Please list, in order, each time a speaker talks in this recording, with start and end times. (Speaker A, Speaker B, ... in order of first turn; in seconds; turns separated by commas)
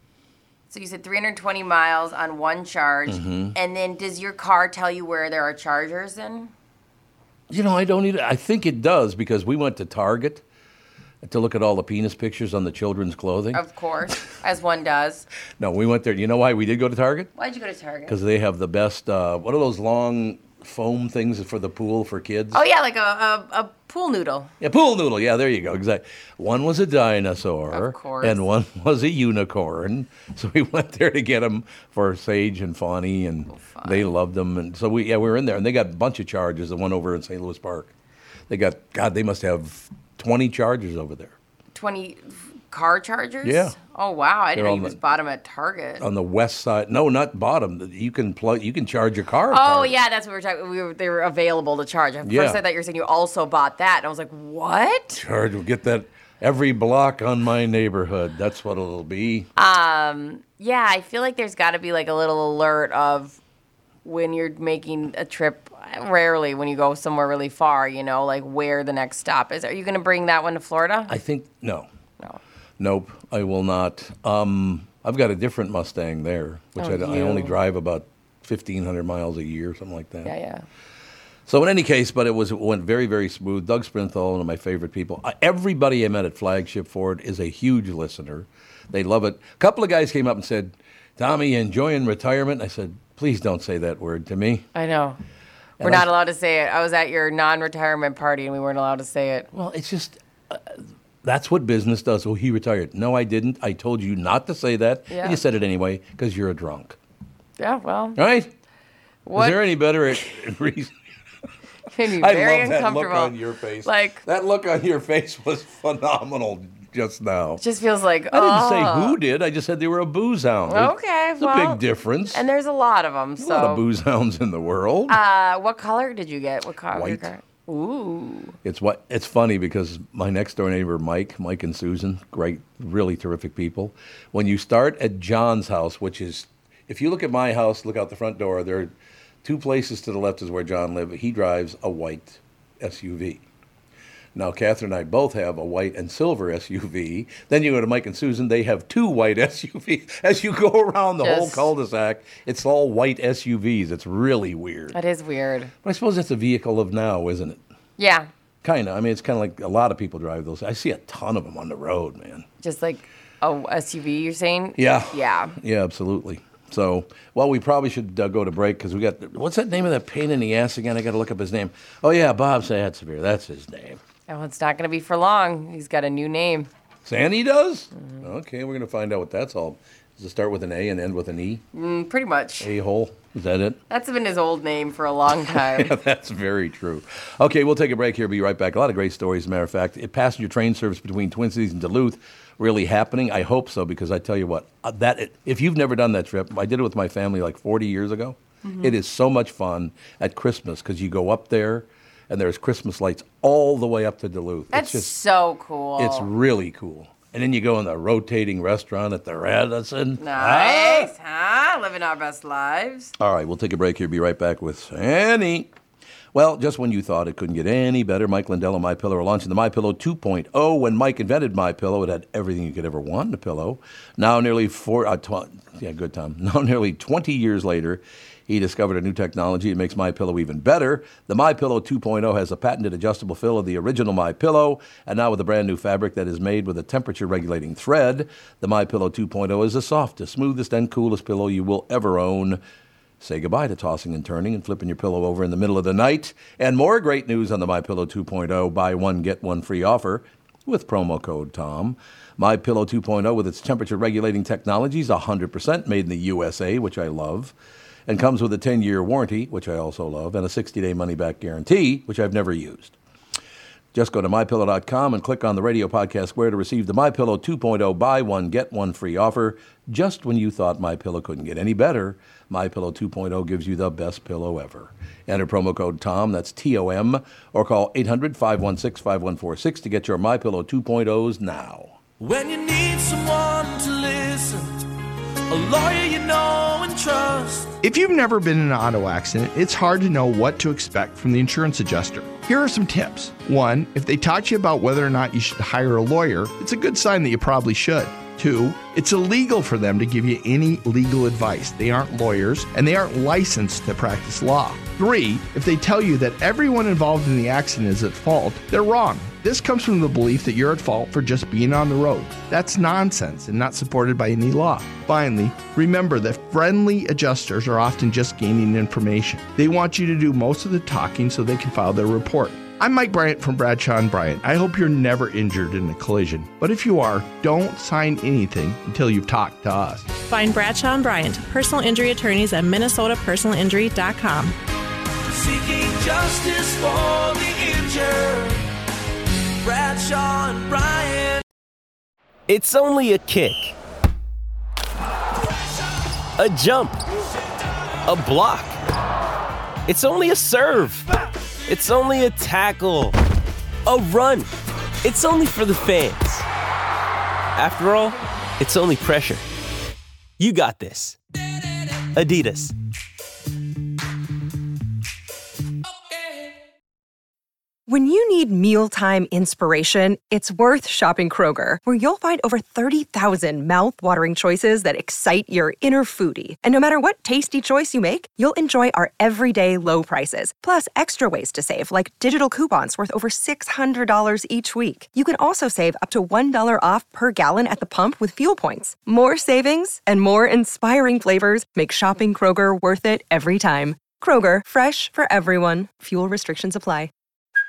Speaker A: 0.7-6.5, Speaker B: 3.1-3.5, Speaker B: 7.5-10.4, Speaker B: 11.2-13.6, Speaker A: 13.5-15.2, Speaker B: 15.6-17.3, Speaker A: 17.4-18.2, Speaker B: 18.1-22.6, Speaker A: 22.5-24.5, Speaker B: 24.6-37.9, Speaker A: 27.7-28.4, Speaker A: 33.5-34.0, Speaker B: 38.5-41.3, Speaker A: 41.7-46.0, Speaker B: 43.4-43.8, Speaker B: 44.5-45.0, Speaker B: 46.0-50.0, Speaker A: 49.5-55.2, Speaker B: 52.2-52.6, Speaker B: 55.1-59.5, Speaker A: 59.5-63.4, Speaker A: 64.0-71.1, Speaker B: 71.1-71.9, Speaker B: 72.8-80.3, Speaker A: 76.8-77.5, Speaker A: 80.2-80.6, Speaker B: 81.5-94.7, Speaker A: 94.7-95.2, Speaker B: 95.8-96.1, Speaker A: 95.8-99.5, Speaker B: 99.5-107.0, Speaker A: 105.1-105.4, Speaker A: 107.6-108.2, Speaker B: 108.2-108.5, Speaker A: 109.2-109.6, Speaker B: 109.3-110.9, Speaker A: 111.9-114.2, Speaker B: 112.2-117.6, Speaker A: 117.6-119.2, Speaker B: 118.3-122.4, Speaker A: 120.7-123.8, Speaker B: 123.4-125.2, Speaker A: 125.1-128.6, Speaker B: 126.9-127.3, Speaker B: 128.6-143.4, Speaker B: 144.3-154.9, Speaker A: 151.2-151.7, Speaker A: 154.9-155.7, Speaker B: 155.8-157.6, Speaker A: 158.0-158.3, Speaker B: 158.6-162.4, Speaker A: 162.6-165.6, Speaker B: 164.8-174.0, Speaker A: 174.3-176.7, Speaker B: 177.0-181.6, Speaker A: 178.0-178.2, Speaker A: 181.7-182.7, Speaker B: 182.6-183.8, Speaker A: 183.9-185.9, Speaker B: 185.4-205.1, Speaker A: 198.6-198.9, Speaker A: 204.7-206.3, Speaker B: 206.0-211.1, Speaker A: 210.2-213.1, Speaker B: 213.2-215.7, Speaker B: 216.3-242.6, Speaker B: 243.2-257.5, Speaker B: 258.1-262.9, Speaker B: 263.9-282.0, Speaker C: 282.2-284.9, Speaker C: 285.5-287.8, Speaker D: 287.8-330.1, Speaker E: 330.3-334.5, Speaker C: 335.2-338.6, Speaker C: 339.6-341.4, Speaker F: 342.5-343.8, Speaker F: 346.4-347.0, Speaker F: 348.0-348.8, Speaker F: 349.9-351.1, Speaker F: 351.7-353.1, Speaker F: 353.8-354.5, Speaker F: 355.0-356.4, Speaker F: 357.6-359.4, Speaker F: 360.4-361.2, Speaker F: 362.1-362.7, Speaker G: 367.9-397.1